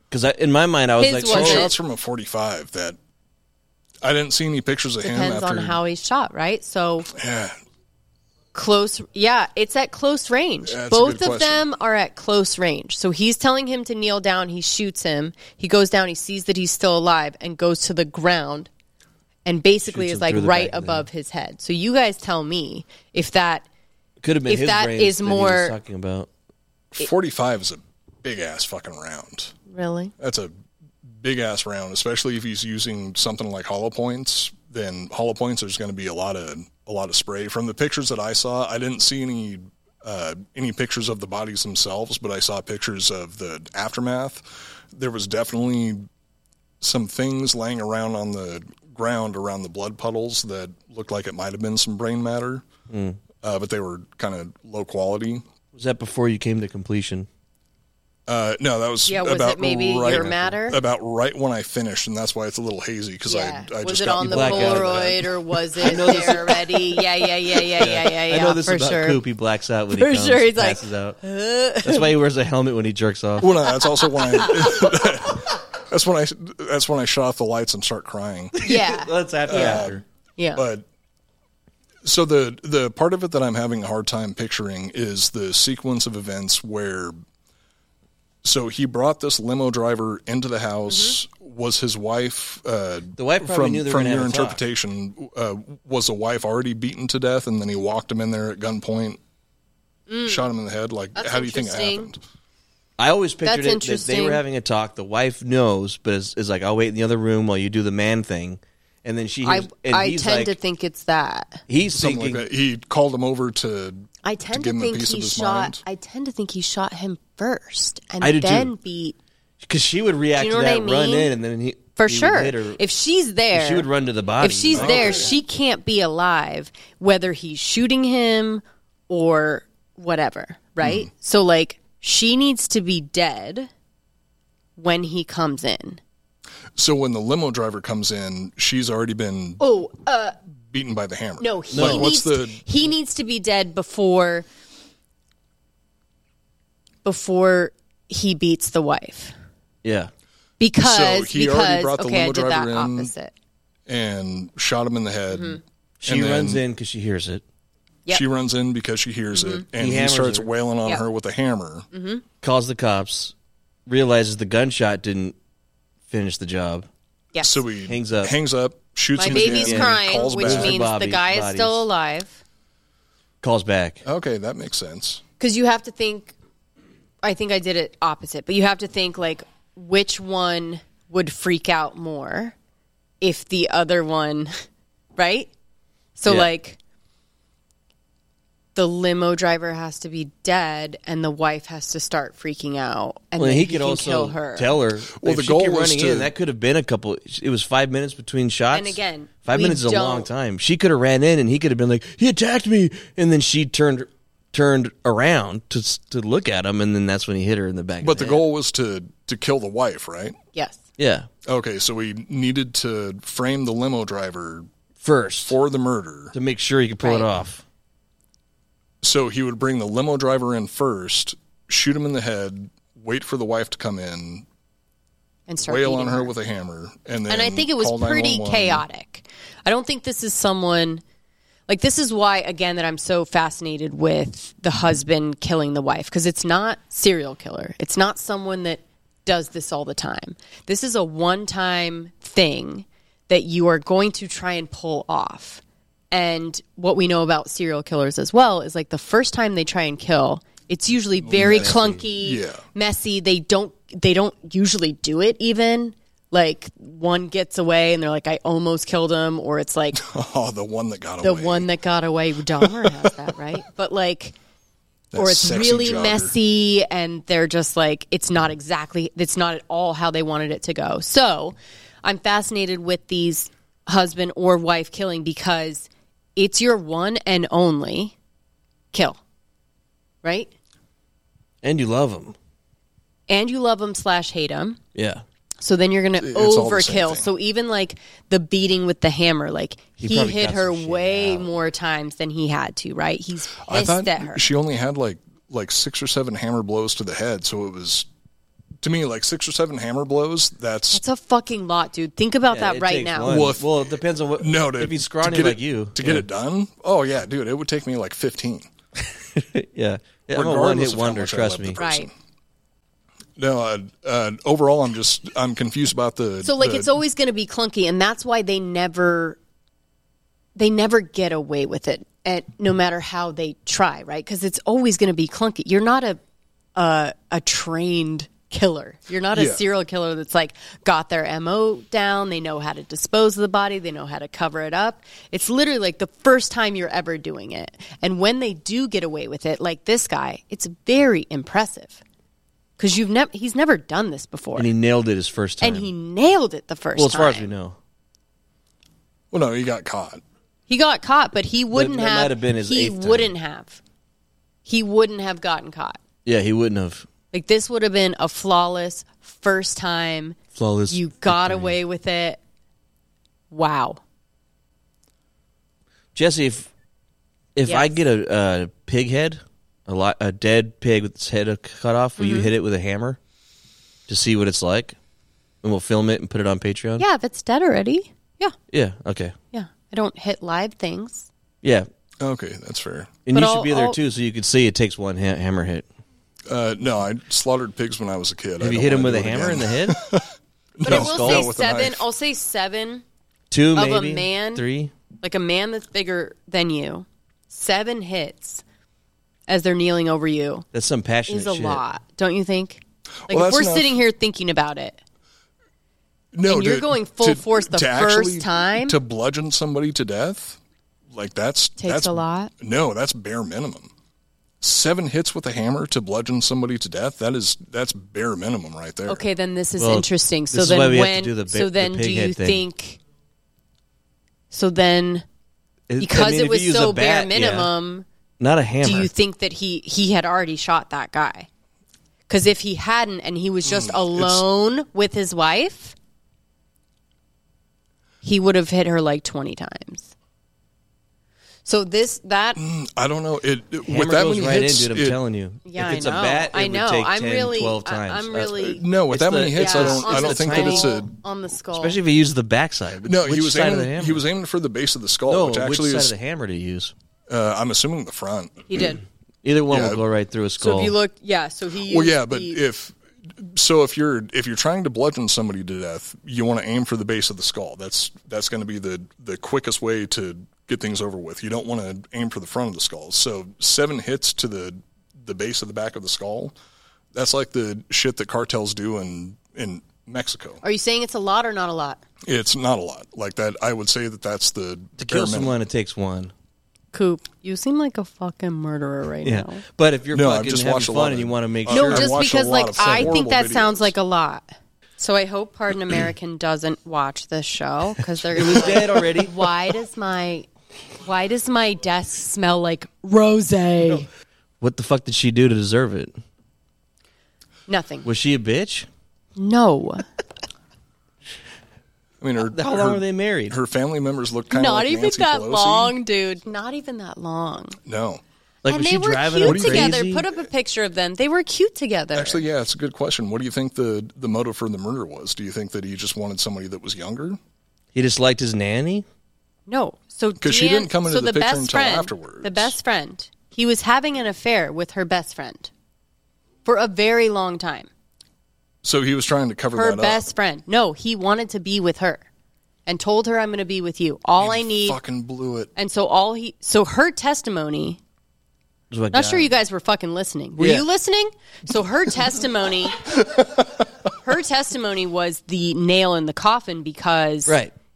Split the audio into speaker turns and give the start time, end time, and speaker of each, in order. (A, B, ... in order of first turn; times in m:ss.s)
0:00.1-0:01.7 A
0:01.0-0:01.7 B
0:01.2-0:03.0 C
0:04.0-0:05.8 C
0:05.0-0:07.1 B
0:07.1-0:07.6 C
0:08.5-0:18.7 B
0:10.6-0:11.6 C
0:19.4-0:23.6 B
0:19.9-0:21.0 A
0:24.2-0:26.3 A
0:24.5-0:25.7 B
0:26.9-0:29.5 C
0:29.7-0:30.1 B
0:30.2-0:30.5 C
0:31.2-0:46.1 C
0:46.8-0:52.6 C
0:52.9-0:53.2 A
0:53.4-0:55.4 C
0:55.7-0:57.3 A
0:58.3-1:06.4 C
0:59.0-1:00.8 B
1:00.1-1:00.6 A
1:03.2-1:09.2 B
1:04.2-1:05.1 A
1:05.8-1:06.7 A
1:07.8-1:11.2 A
1:09.9-1:12.1 B
1:11.8-1:13.5 A
1:13.4-1:18.7 C
1:14.0-1:14.9 B
1:18.6-1:20.0 A
1:18.6-1:19.8 B
1:19.5-1:20.0 C
1:20.4-1:20.6 B
1:20.5-1:20.8 C
1:22.0-1:27.2 C
1:28.4-1:39.2 C
1:30.9-1:31.2 B
1:33.2-1:34.6 A
1:40.1-1:40.4 B
1:40.2-1:42.2 C
1:41.1-1:42.1 B
1:43.0-1:50.5 A
1:43.4-1:44.4 B
1:49.4-1:51.6 B
1:51.7-1:52.4 A
1:51.9-1:55.8 C
1:54.2-1:59.2 B
1:58.2-1:58.7 A
1:59.6-2:02.8 A
2:00.4-2:01.3 B
2:02.0-2:03.9 B
2:03.5-2:05.3 A
2:04.4-2:13.7 B
2:04.7-2:05.3 C
2:10.8-2:11.1 C
2:14.8-2:16.0 B
2:16.7-2:19.6 C
2:19.6-2:20.4 B
2:20.7-2:22.6 C
2:21.4-2:24.5 B
2:21.7-2:22.1 A
2:27.0-2:29.3 B
2:29.8-2:30.1 A
2:30.6-2:33.3 B
2:30.8-2:33.1 C
2:33.9-2:36.6 C
2:35.3-2:35.6 B
2:36.0-2:37.4 A
2:38.1-2:41.9 C
2:39.3-2:39.6 B
2:39.8-2:40.5 A
2:41.9-2:42.2 B
2:42.4-2:43.3 A
2:43.9-2:45.3 A
2:46.1-2:46.9 A
2:47.4-2:50.8 C
2:47.9-2:48.3 A
2:49.2-2:52.4 B
2:49.2-2:51.9 A
2:53.4-2:54.0 A
2:54.0-2:55.2 C
2:55.4-2:56.3 B
2:57.2-3:02.5 B
3:03.2-3:04.5 B
3:05.2-3:05.5 B
3:06.2-3:06.8 B
3:08.7-3:14.7 B
3:13.4-3:28.4 A
3:15.2-3:16.3 C
3:18.7-3:20.3 B
3:28.0-3:30.4 C
3:30.5-3:30.8 B
3:31.0-3:31.3 A
3:31.5-3:34.7 C
3:35.0-3:35.6 A
3:35.4-3:36.3 C
3:36.3-3:37.6 A
3:37.0-3:37.3 B
3:39.0-3:44.4 C
3:45.5-3:46.3 B
3:45.6-3:48.8 C
3:47.3-3:51.0 B
3:51.7-4:20.0 B
4:11.2-4:12.6 C
4:11.4-4:12.0 A
4:19.9-4:21.7 C
4:21.2-4:24.3 B
4:22.6-4:23.1 C
4:25.1-4:26.3 C
4:25.1-4:38.1 B
4:38.9-4:39.2 B
4:40.2-4:40.5 B
4:41.6-4:42.3 A
4:43.3-4:44.8 B
4:44.9-4:45.2 A
4:45.6-4:54.4 B
4:46.2-4:47.3 C
4:50.0-4:51.5 A
4:53.6-4:58.1 C
4:58.8-5:01.0 C
5:00.9-5:03.4 B
5:02.5-5:06.2 A
5:03.2-5:08.7 C
5:09.3-5:11.8 A
5:10.3-5:12.1 C
5:11.8-5:12.1 B
5:13.4-5:16.9 C
5:16.4-5:19.4 B
5:20.6-5:26.2 B
5:26.8-5:42.0 B
5:29.3-5:29.6 C
5:42.8-5:44.7 B
5:44.6-5:45.9 A
5:45.6-5:47.5 B
5:47.0-5:47.8 A
5:49.3-5:50.2 C
5:50.7-5:53.8 B
5:51.7-5:53.3 A
5:54.6-5:56.0 B
5:56.2-5:57.0 A
5:57.3-6:00.4 B
6:00.5-6:01.8 A
6:00.9-6:02.4 B
6:03.5-6:04.0 B
6:06.1-6:06.7 A
6:07.5-6:13.2 A
6:07.6-6:07.9 B
6:12.2-6:12.5 B
6:14.1-6:15.0 A
6:15.6-6:17.0 A
6:17.0-6:18.5 B
6:18.7-6:19.3 A
6:19.5-6:21.3 B
6:21.6-6:21.9 A
6:22.2-6:23.1 C
6:23.2-6:25.8 A
6:23.3-6:24.0 B
6:26.5-6:32.0 C
6:28.6-6:30.0 A
6:30.8-6:33.0 B
6:30.8-6:31.5 A
6:33.5-6:34.9 A
6:33.7-6:34.6 B
6:35.2-6:38.6 B
6:39.5-6:40.6 B
6:40.7-6:41.8 A
6:41.3-6:45.0 B
6:43.2-6:44.0 C
6:46.3-6:50.6 C
6:46.4-6:49.0 B
6:51.1-6:53.9 C
6:51.8-6:52.5 B
6:54.6-6:59.2 C
6:59.1-7:03.0 B
6:59.8-7:02.6 A
7:04.5-7:05.2 B
7:05.9-7:07.7 A
7:06.0-7:08.0 B
7:08.4-7:09.1 A
7:08.8-7:11.5 B
7:12.3-7:15.9 B
7:13.6-7:14.4 C
7:18.2-7:20.1 B
7:21.6-7:22.6 B
7:22.6-7:25.2 C
7:23.9-7:28.6 A
7:25.6-7:28.8 B
7:28.5-7:31.1 C
7:29.1-7:31.0 A
7:29.5-7:32.0 B
7:31.7-7:34.2 A
7:33.0-7:36.1 C
7:35.3-7:36.9 A
7:37.3-7:38.8 C
7:38.7-7:39.0 B
7:39.4-7:40.9 A
7:39.7-7:40.0 C
7:40.6-7:42.6 B
7:41.8-7:56.6 C
7:57.1-8:00.6 C
8:00.6-8:02.0 B
8:02.2-8:05.6 C
8:05.0-8:06.3 A
8:06.9-8:09.6 B
8:09.2-8:12.2 A
8:10.1-8:13.9 C
8:11.7-8:20.5 B
8:12.8-8:13.1 A
8:18.4-8:19.3 A
8:21.0-8:24.1 B
8:24.6-8:26.1 A
8:27.7-8:28.1 B
8:28.0-8:28.9 A
8:29.4-8:30.0 B
8:32.2-8:35.9 C
8:32.5-8:33.6 A
8:34.5-8:37.8 B
8:37.8-8:38.2 C
8:38.6-8:40.2 A
8:38.6-8:42.4 B
8:39.4-8:40.0 C
8:42.1-8:47.4 C
8:47.9-8:49.0 A
8:49.7-8:55.7 B
8:50.4-8:52.7 C
8:56.6-8:57.9 B
8:58.8-9:00.2 C
8:59.7-9:02.2 B
9:02.8-9:05.0 B
9:04.4-9:05.7 C
9:05.8-9:08.0 B
9:08.9-9:09.5 A
9:09.1-9:13.0 B
9:10.6-9:10.8 A
9:14.2-9:17.6 B
9:17.5-9:17.7 A